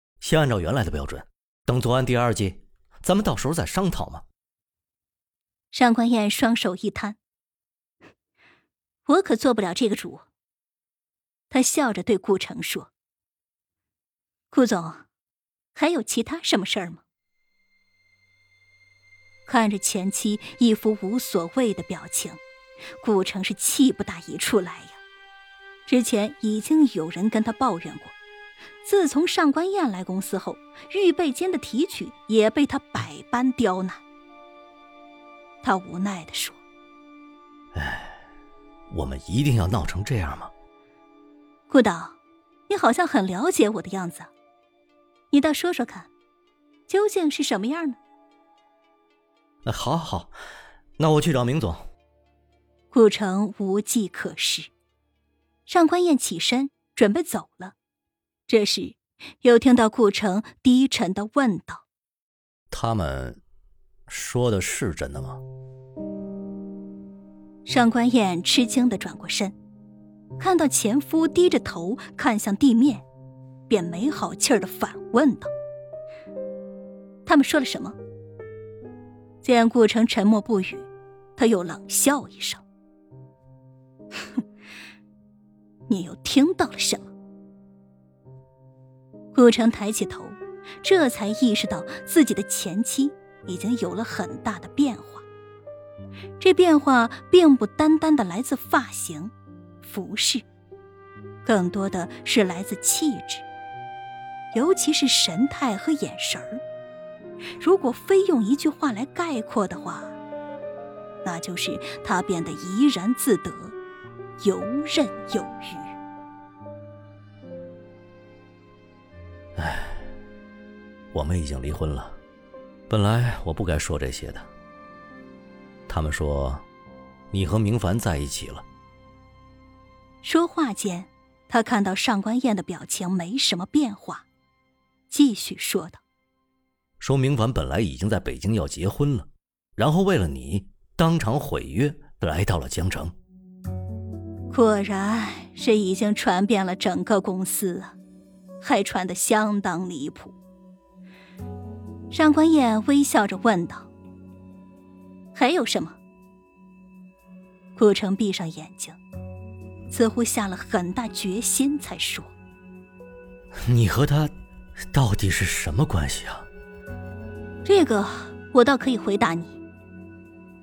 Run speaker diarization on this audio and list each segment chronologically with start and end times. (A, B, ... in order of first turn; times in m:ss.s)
0:00.2-0:04.2 A
0:05.7-0:07.2 B
0:09.1-0:10.3 B
0:11.5-0:12.9 B
0:14.5-0:15.1 B
0:15.7-0:17.0 B
0:19.5-0:22.4 B
0:23.0-0:25.0 B
0:25.9-0:28.2 B
0:28.8-0:34.0 B
0:35.6-0:36.6 B
0:37.8-0:38.2 A
0:38.9-0:40.5 A
0:41.7-0:42.2 B
0:42.7-0:44.3 B
0:45.3-0:46.1 B
0:46.9-0:48.0 B
0:49.7-0:50.3 A
0:51.0-0:51.8 A
0:52.9-0:54.7 B
0:55.7-0:57.8 B
0:58.5-1:01.8 B
1:02.7-1:03.4 A
1:04.1-1:05.4 A
1:07.6-1:09.5 B
1:10.4-1:13.0 B
1:13.7-1:15.5 B
1:17.3-1:18.0 B
1:19.4-1:22.6 B
1:25.9-1:27.1 B
1:29.3-1:35.3 B
1:36.4-1:40.4 B
1:41.4-1:43.5 B
1:44.5-1:46.6 B
1:47.6-1:50.2 B
1:51.2-1:53.8 B
1:54.4-1:56.0 B
1:59.6-2:00.1 A
2:01.1-2:02.2 A
2:02.9-2:04.5 A
2:05.9-2:06.6 A
2:07.3-2:08.6 A
2:10.2-2:14.3 B
2:15.1-2:16.0 B
2:17.0-2:23.1 A
2:24.5-2:28.0 B
2:28.6-2:30.4 B
2:32.1-2:33.9 B
2:35.3-2:36.0 B
2:37.8-2:39.0 B
2:39.9-2:42.3 B
2:43.7-2:44.3 A
2:44.9-2:46.5 A
2:47.6-2:49.6 B